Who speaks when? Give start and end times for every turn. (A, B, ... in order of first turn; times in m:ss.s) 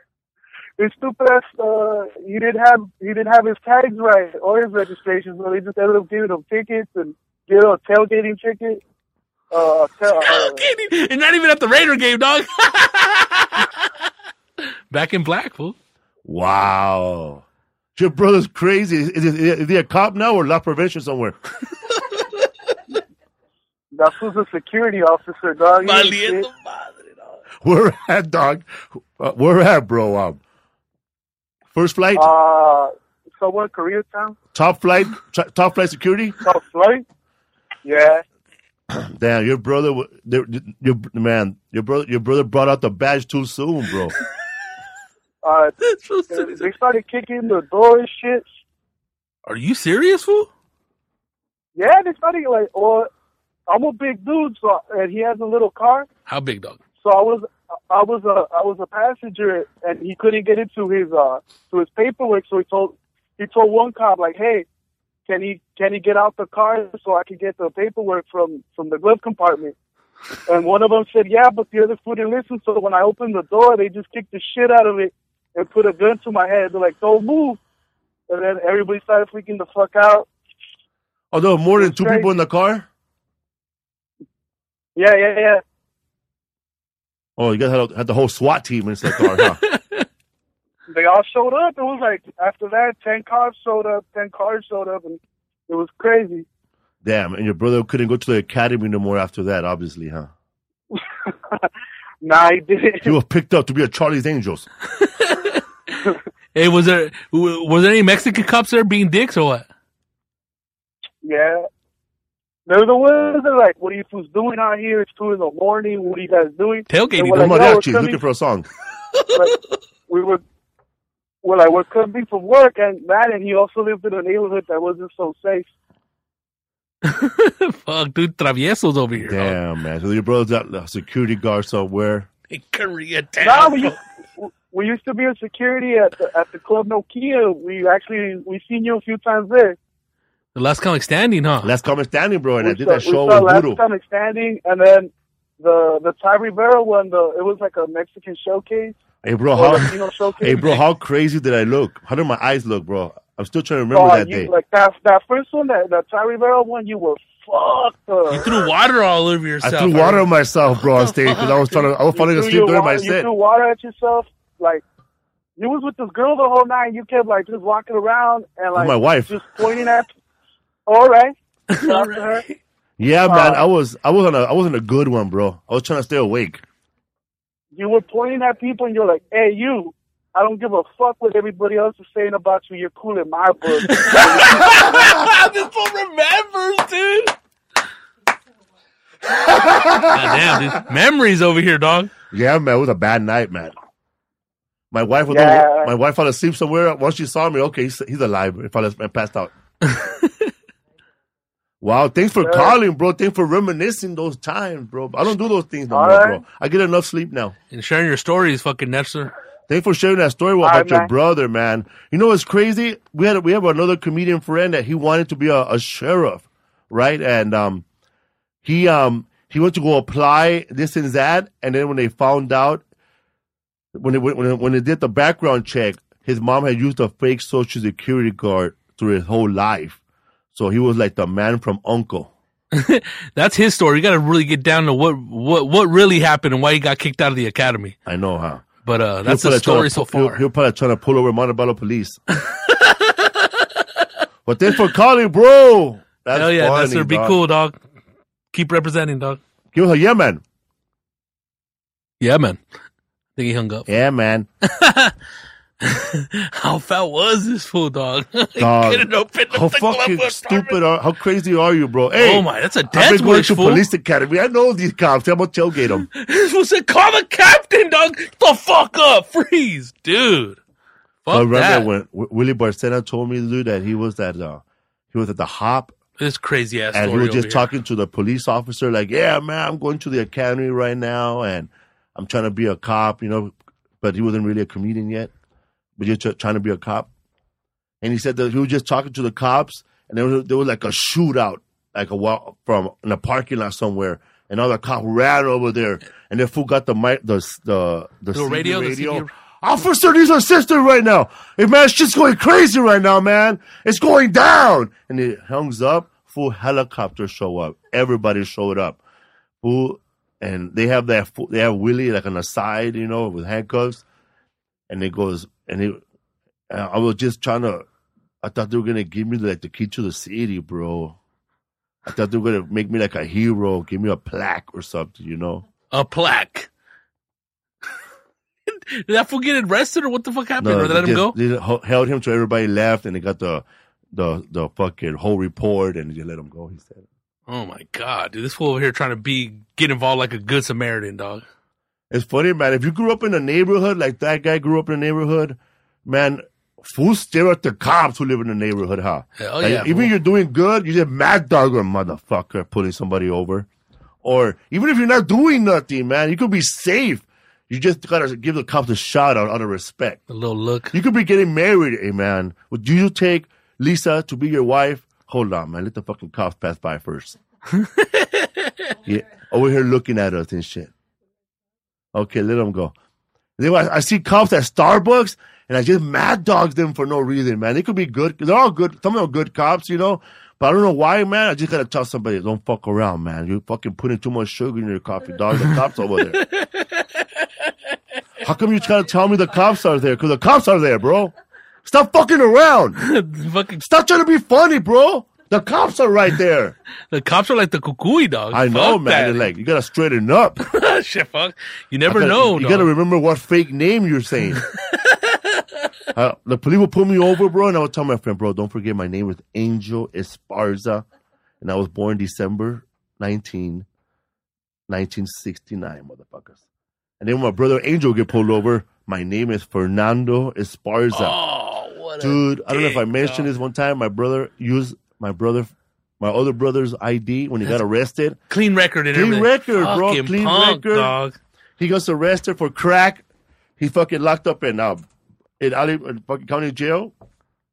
0:00.8-0:08.8 A
0:09.5-0:10.6 A
0:10.2-0:13.8 B
0:14.9-0:15.8 B
0:16.2-0:17.4 C
0:18.0-0:21.4 C
0:23.9-0:26.5 A
0:25.8-0:27.4 B
0:27.6-0:30.4 C
0:31.7-0:32.3 C
0:32.2-0:34.4 A
0:34.5-0:36.4 C
0:36.4-0:37.0 A
0:37.8-0:38.2 A
0:38.9-0:44.2 C
0:45.4-0:45.8 A
0:45.8-0:46.7 B
0:46.3-0:48.5 A
0:49.5-0:50.5 B
0:51.8-0:53.1 A
0:53.7-0:56.1 A
0:56.3-0:56.8 B
0:57.0-1:04.6 A
1:05.3-1:09.7 A
1:10.5-1:17.6 A
1:18.3-1:20.3 A
1:21.3-1:22.9 C
1:21.8-1:22.4 A
1:25.0-1:25.6 A
1:27.4-1:29.6 C
1:29.7-1:30.0 B
1:30.9-1:36.4 A
1:37.0-1:40.3 C
1:40.9-1:41.7 A
1:42.2-1:43.1 A
1:43.0-1:44.7 C
1:45.0-1:45.6 B
1:46.6-1:49.7 B
1:51.2-1:51.7 A
1:52.7-1:58.2 A
1:56.9-1:57.8 B
1:57.3-1:58.7 C
1:59.2-1:59.6 B
2:00.1-2:00.4 A
2:01.4-2:05.7 A
2:07.0-2:09.6 B
2:09.2-2:12.3 C
2:12.5-2:14.0 B
2:13.4-2:19.8 A
2:20.6-2:21.7 B
2:21.6-2:23.8 C
2:22.6-2:29.0 A
2:29.2-2:29.9 C
2:29.5-2:30.6 A
2:30.4-2:34.5 C
2:30.5-2:30.8 B
2:33.9-2:38.6 A
2:38.3-2:41.9 B
2:39.6-2:43.3 C
2:42.1-2:44.8 A
2:45.6-2:50.1 A
2:48.8-2:49.4 C
2:50.9-2:52.4 A
2:51.7-2:52.6 B
2:53.0-2:56.6 C
2:53.3-2:53.6 A
2:57.8-3:04.8 A
3:03.9-3:07.3 B
3:09.5-3:10.6 C
3:10.0-3:12.1 B
3:12.3-3:13.7 C
3:14.9-3:19.5 C
3:15.3-3:15.9 A
3:19.8-3:20.5 B
3:21.8-3:27.6 C
3:22.4-3:22.8 A
3:25.9-3:26.4 A
3:27.7-3:29.3 B
3:29.7-3:37.8 C
3:30.6-3:31.1 A
3:38.6-3:42.8 C
3:44.0-3:50.0 C
3:50.5-3:52.3 C
3:52.7-3:58.0 B
3:58.1-3:58.7 C
3:58.8-4:00.4 B
3:59.2-4:02.2 C
4:02.5-4:04.1 B
4:04.5-4:07.4 C
4:06.3-4:07.8 B
4:08.5-4:09.4 B
4:09.7-4:10.4 C
4:12.2-4:12.6 B
4:13.4-4:13.9 B
4:13.9-4:14.5 C
4:14.6-4:15.2 B
4:15.8-4:20.8 B
4:18.6-4:26.1 C
4:22.2-4:23.8 B
4:26.1-4:30.6 B
4:31.2-4:31.9 B
4:31.3-4:36.0 C
4:36.2-4:37.6 B
4:36.9-4:45.3 C
4:46.0-4:47.1 C
4:48.0-5:09.0 C
4:58.3-4:59.3 B
5:09.6-5:14.0 C
5:14.9-5:16.0 C
5:16.7-5:17.9 C
5:18.4-5:21.2 C
5:22.0-5:25.6 C
5:25.9-5:26.7 B
5:28.7-5:31.4 B
5:30.6-5:37.1 C
5:37.5-5:41.4 B
5:42.1-5:53.7 C
5:49.4-5:50.1 B
5:54.2-6:00.2 C
6:00.3-6:00.9 B
6:00.9-6:07.4 C
6:07.8-6:08.7 B
6:09.0-6:10.9 C
6:12.2-6:12.9 C
6:13.6-6:26.4 C
6:26.3-6:27.3 B
6:28.4-6:31.3 C
6:31.8-6:33.0 C
6:33.0-6:33.8 B
6:33.8-6:36.8 C
6:37.1-6:39.5 B
6:38.5-6:40.6 C
6:40.7-6:42.9 B
6:42.1-6:44.6 C
6:44.8-6:45.6 B
6:46.2-6:51.0 C
6:51.6-6:53.9 C
6:54.9-6:56.6 C
6:57.2-7:01.4 C
7:01.1-7:03.5 B
7:02.2-7:08.4 C
7:08.5-7:11.4 B
7:09.1-7:11.1 C
7:11.8-7:13.2 C
7:13.8-7:15.0 C
7:15.6-7:17.1 C